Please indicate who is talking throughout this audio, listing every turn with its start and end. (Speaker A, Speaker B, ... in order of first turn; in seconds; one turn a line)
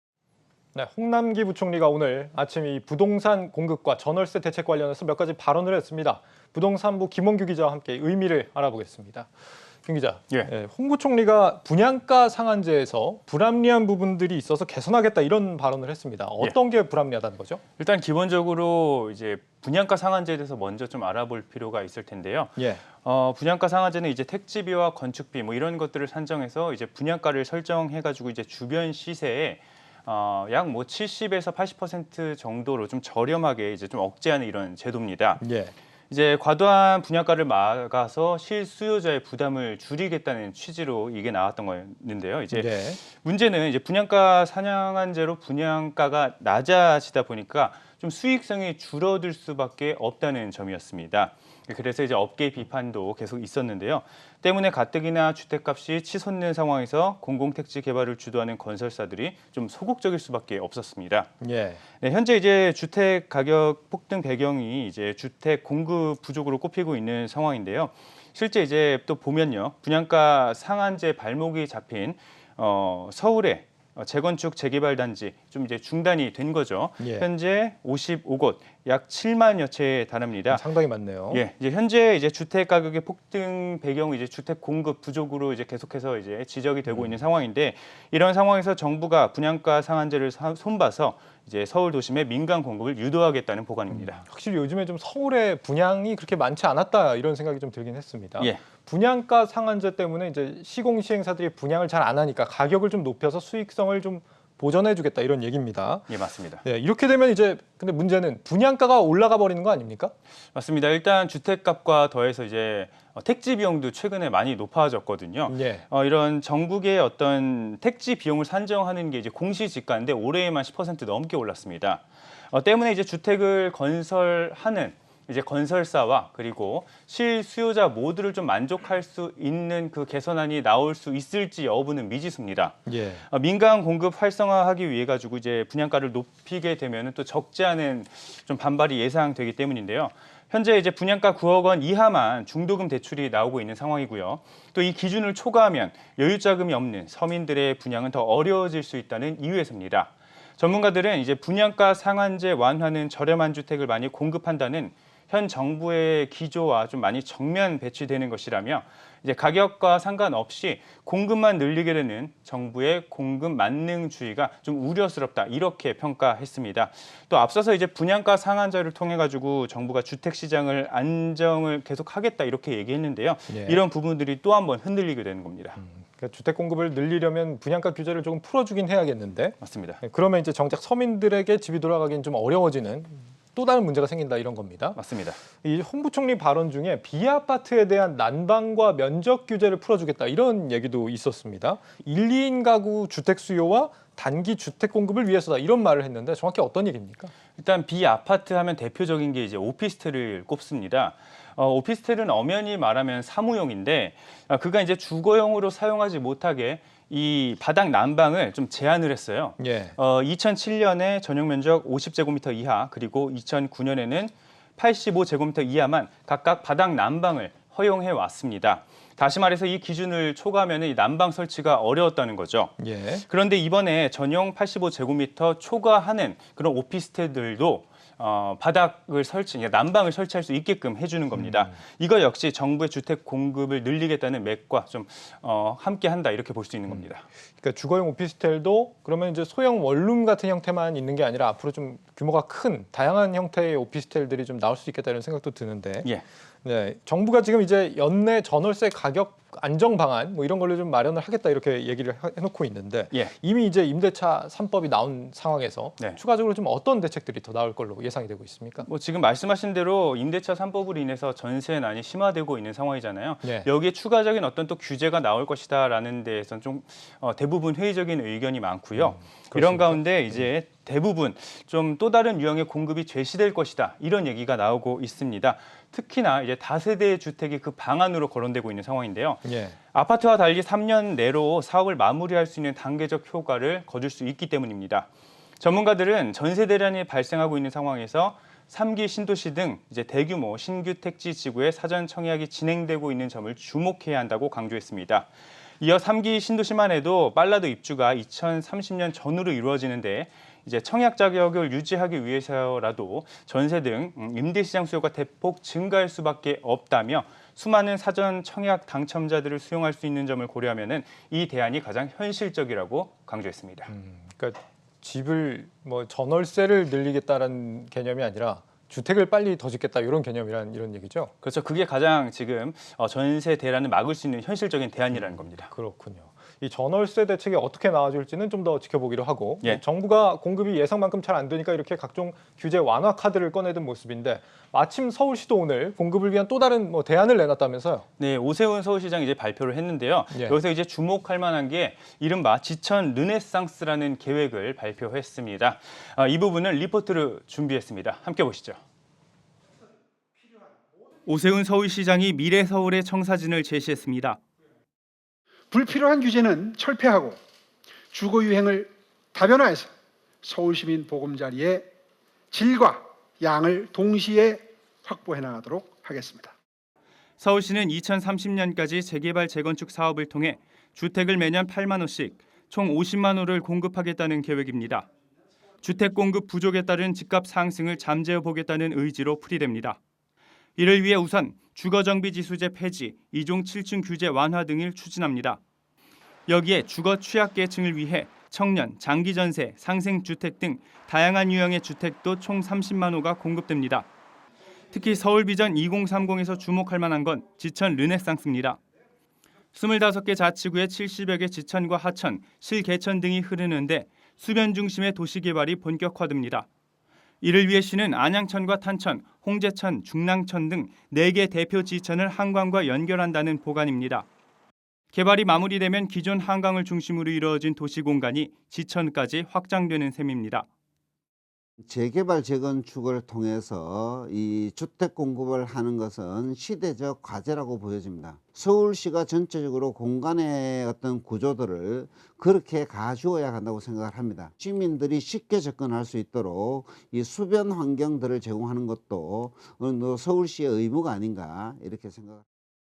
Speaker A: 0.7-9.3
Speaker A: 9.8-17.6
Speaker B: 17.8-35.5
Speaker A: 22.6-22.8
Speaker A: 35.4-35.7
Speaker B: 36.1-61.3
Speaker A: 42.5-43.0
Speaker A: 61.4-61.8
Speaker B: 61.9-80.8
Speaker A: 77.0-77.3
Speaker A: 80.5-81.4
Speaker B: 81.3-94.2
Speaker A: 86.9-87.1
Speaker A: 93.9-106.1
Speaker B: 106.1-106.6
Speaker A: 106.6-110.1
Speaker B: 110.5-175.8
Speaker A: 115.5-115.8
Speaker A: 132.9-133.2
Speaker A: 173.5-173.8
Speaker A: 175.8-185.0
Speaker B: 179.6-180.0
Speaker B: 184.9-185.4
Speaker A: 185.5-197.3
Speaker B: 197.6-237.2
Speaker A: 209.6-209.9
Speaker A: 222.8-223.2
Speaker A: 231.3-231.7
Speaker A: 237.6-246.1
Speaker A: 246.6-258.9
Speaker B: 258.9-285.1
Speaker A: 263.4-263.7
Speaker A: 269.0-270.4
Speaker A: 279.4-279.8
Speaker B: 285.6-313.9
Speaker A: 313.9-321.3
Speaker B: 321.4-325.7
Speaker A: 325.1-338.1
Speaker B: 338.2-348.8
Speaker A: 340.3-340.6
Speaker B: 351.2-354.4
Speaker C: 355.7-357.4
Speaker C: 358.1-359.9
Speaker C: 360.4-361.9
Speaker C: 362.5-366.5
Speaker B: 367.4-375.1
Speaker B: 375.8-380.0
Speaker B: 380.8-385.6
Speaker B: 386.5-394.1
Speaker B: 394.9-398.8
Speaker B: 399.7-406.6
Speaker B: 407.4-414.2
Speaker B: 415.1-420.6
Speaker D: 421.8-442.4